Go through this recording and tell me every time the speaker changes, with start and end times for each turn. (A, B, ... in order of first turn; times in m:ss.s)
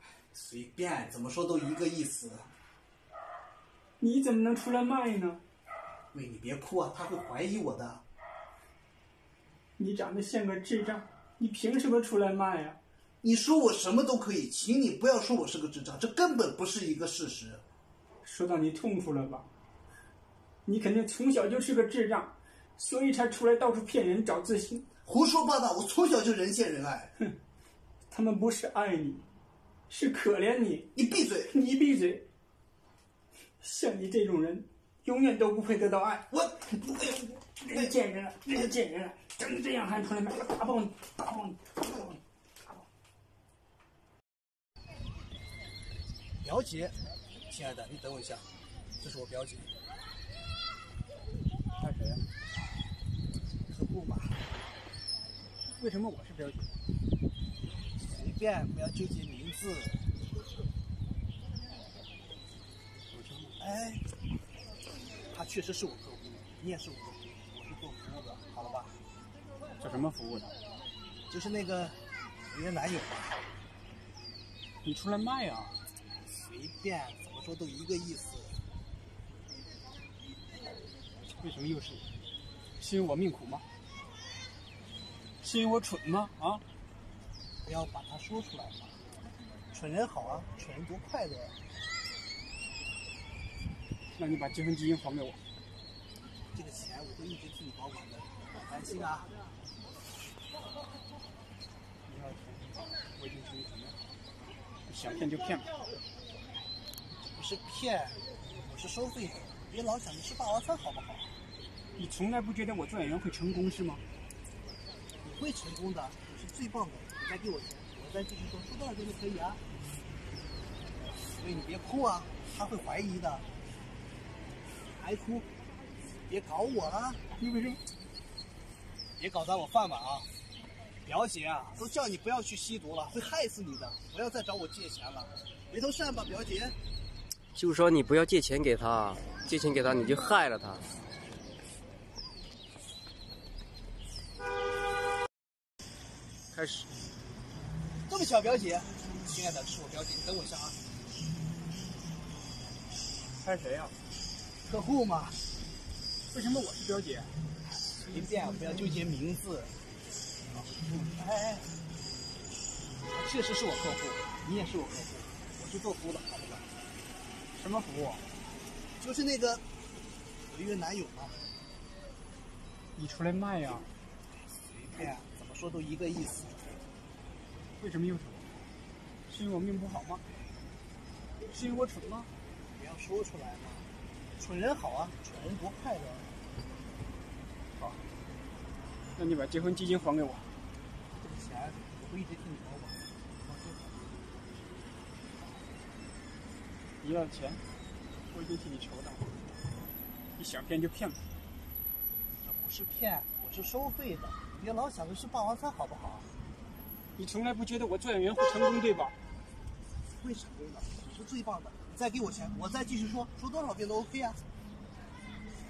0:00.3-0:02.5 A
0:04.0-0:05.4 B
0:06.1-0:08.0 A
0:09.8-0:12.8 B
0:13.2-0:17.6 A
0:18.2-0:19.4 B
0:20.6-0:24.8 B
0:25.0-0:27.1 A
0:28.1-0:29.2 B
0:29.9-0:30.9 B
0:30.9-0:31.5 A
0:31.5-0:32.2 B
0:33.6-0:36.2 B
0:36.3-0:38.0 A
0:37.6-0:42.1 B
0:46.4-0:47.0 A
0:47.5-0:48.5 A
0:49.0-0:49.7 A
0:51.8-0:52.2 B
0:53.7-0:54.4 A
0:55.8-0:56.7 B
0:58.0-1:00.0 A
1:03.1-1:03.6 B
1:03.6-1:04.0 A
1:05.3-1:09.0 A
1:09.8-1:10.5 B
1:11.3-1:12.0 A
1:12.5-1:13.4 A
1:14.8-1:15.7 B
1:16.2-1:18.6 A
1:21.4-1:22.0 B
1:22.8-1:23.6 B
1:25.4-1:26.6 B
1:27.6-1:29.0 A
1:29.7-1:31.6 A
1:34.1-1:35.4 B
1:36.5-1:39.3 A
1:42.0-1:44.0 B
1:44.8-1:45.7 B
1:47.3-1:51.3 A
1:52.0-1:54.0 B
1:55.2-1:59.6 A
2:01.3-2:03.4 A
2:04.9-2:05.4 A
2:06.3-2:07.2 A
2:07.4-2:07.8 B
2:09.2-2:10.3 A
2:11.0-2:16.8 A
2:17.5-2:20.8 C
2:26.5-2:26.9 C
2:28.1-2:30.8 A
2:33.4-2:34.0 B
2:34.6-2:35.4 A
2:36.3-2:37.3 B
2:38.1-2:39.7 A
2:40.7-2:41.7 A
2:43.1-2:46.7 A
2:47.5-2:48.2 B
2:49.0-2:49.6 A
2:50.5-2:51.4 A
2:53.0-2:53.9 B
2:54.7-2:56.7 A
2:57.8-2:58.5 B
2:59.3-3:00.2 B
3:01.5-3:02.3 B
3:02.7-3:03.9 A
3:04.4-3:06.3 A
3:07.7-3:08.0 B
3:09.2-3:10.5 B
3:11.2-3:14.1 A
3:17.0-3:17.6 B
3:18.3-3:19.4 B
3:20.4-3:21.2 B
3:22.4-3:26.3 A
3:27.2-3:29.2 B
3:30.1-3:34.4 A